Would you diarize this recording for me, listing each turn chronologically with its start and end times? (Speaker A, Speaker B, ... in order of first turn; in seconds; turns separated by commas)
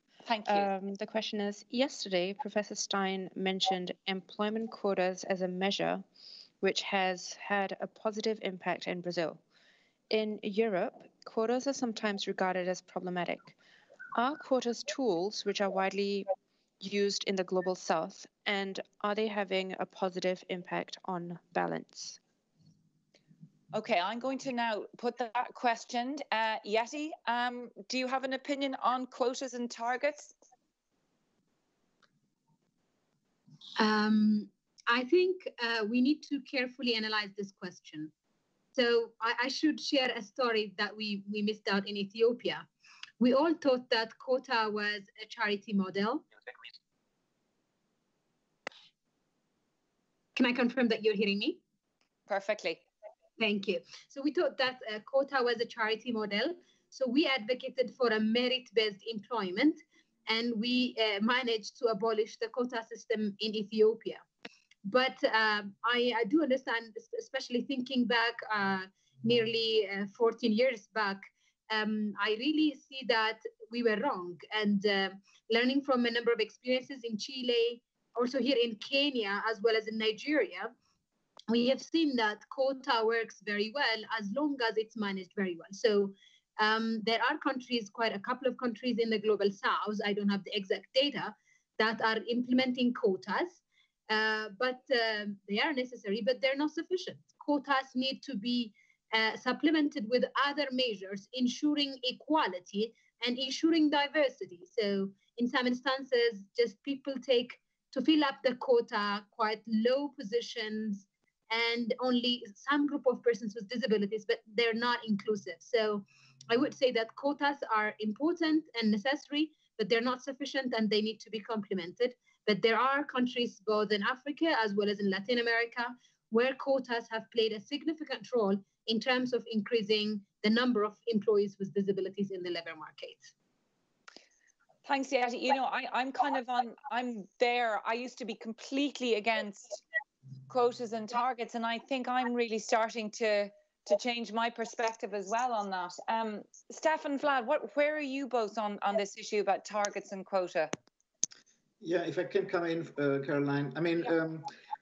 Speaker A: 0.2-0.7, Speaker B: 0.5-6.0, Speaker B: 6.6-9.4, Speaker B: 10.1-13.6, Speaker B: 14.1-22.2, Speaker A: 23.7-30.3, Speaker C: 33.8-38.1, Speaker C: 38.7-42.6, Speaker C: 43.2-46.2, Speaker C: 50.3-51.6, Speaker A: 52.3-52.8, Speaker C: 53.4-64.2, Speaker C: 64.8-80.7, Speaker C: 81.5-133.3, Speaker A: 134.8-139.8, Speaker A: 140.5-150.7, Speaker D: 151.8-154.5